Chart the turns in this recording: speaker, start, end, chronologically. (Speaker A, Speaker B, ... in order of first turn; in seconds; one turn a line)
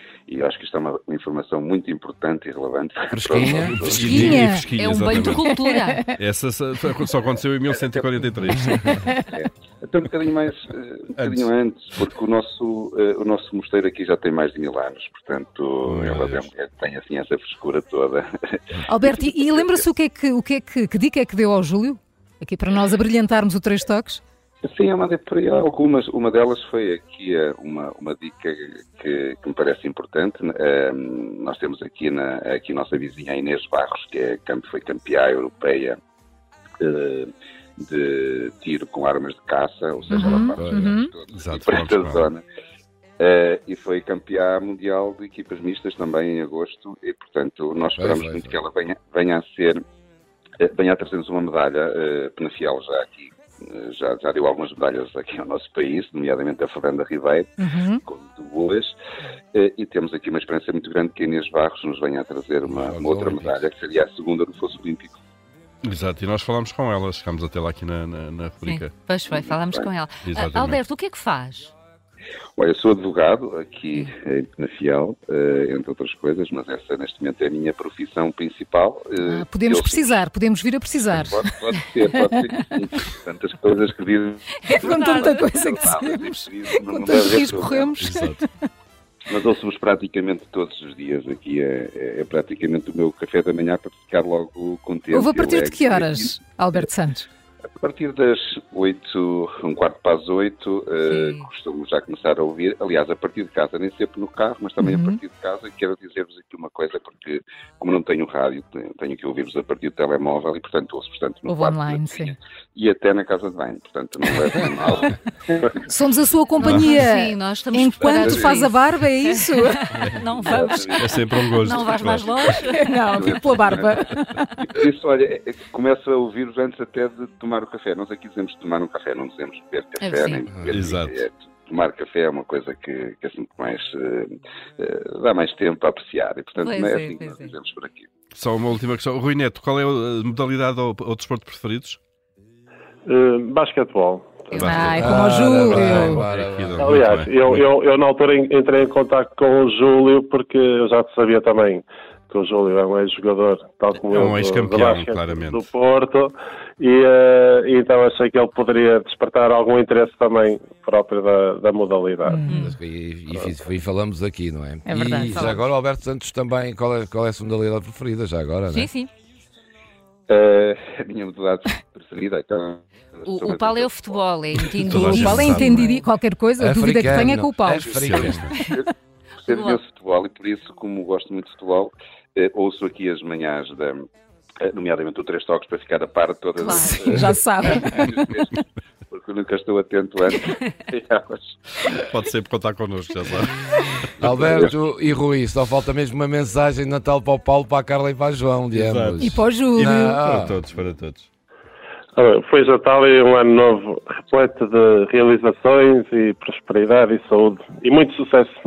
Speaker A: 0.3-4.4
Speaker B: 3.1-4.5
Speaker C: 3.6-9.1
Speaker D: 3.9-4.6
Speaker E: 4.7-6.1
Speaker D: 5.5-5.7
Speaker A: 7.8-8.1
Speaker A: 9.1-19.8
Speaker B: 15.8-16.4
Speaker D: 18.9-24.2
Speaker A: 24.6-36.0
Speaker A: 36.8-42.4
Speaker D: 40.1-41.1
Speaker B: 40.5-41.0
Speaker C: 41.3-42.3
Speaker A: 43.2-49.8
Speaker B: 48.0-48.6
Speaker A: 50.6-58.9
Speaker D: 57.6-58.0
Speaker A: 59.5-65.2
Speaker B: 62.7-63.6
Speaker C: 65.8-68.9
Speaker E: 68.6-71.7
Speaker A: 69.3-69.9
Speaker C: 70.2-70.8
Speaker A: 72.6-80.2
Speaker D: 79.2-82.4
Speaker A: 81.1-88.0
Speaker E: 84.7-85.5
Speaker D: 84.7-88.5
Speaker C: 88.0-88.4
Speaker A: 89.3-96.3
Speaker D: 95.1-97.3
Speaker A: 97.8-115.6
Speaker E: 101.0-101.5
Speaker D: 104.8-105.2
Speaker D: 111.4-112.3
Speaker D: 115.8-119.9
Speaker E: 116.6-123.4
Speaker C: 116.6-117.0
Speaker A: 118.0-118.6
Speaker A: 120.4-138.1
Speaker D: 120.5-120.8
Speaker C: 121.0-122.3
Speaker D: 122.7-124.6
Speaker E: 130.0-130.5
Speaker C: 130.7-131.2
Speaker E: 136.6-137.5
Speaker C: 138.3-142.0
Speaker F: 143.1-144.7
Speaker E: 144.5-144.9
Speaker C: 144.6-147.6
Speaker D: 144.6-146.2
Speaker B: 145.0-146.9
Speaker F: 146.8-162.4
Speaker C: 153.9-155.6
Speaker D: 162.2-162.7
Speaker E: 162.4-162.8
Speaker B: 162.5-168.9
Speaker D: 164.8-165.6
Speaker E: 165.3-165.6
Speaker E: 168.7-169.1
Speaker A: 170.3-174.7
Speaker E: 173.2-176.0
Speaker C: 174.7-175.9
Speaker D: 175.0-178.1
Speaker B: 176.6-178.4
Speaker A: 177.9-178.9
Speaker C: 178.0-178.5
Speaker A: 179.4-184.1
Speaker E: 179.5-179.8
Speaker A: 184.6-192.0
Speaker E: 186.6-187.1
Speaker D: 186.6-188.1
Speaker C: 192.1-193.6
Speaker B: 194.2-200.6
Speaker A: 194.3-194.7
Speaker C: 198.7-201.3
Speaker D: 199.2-200.3
Speaker F: 202.1-208.6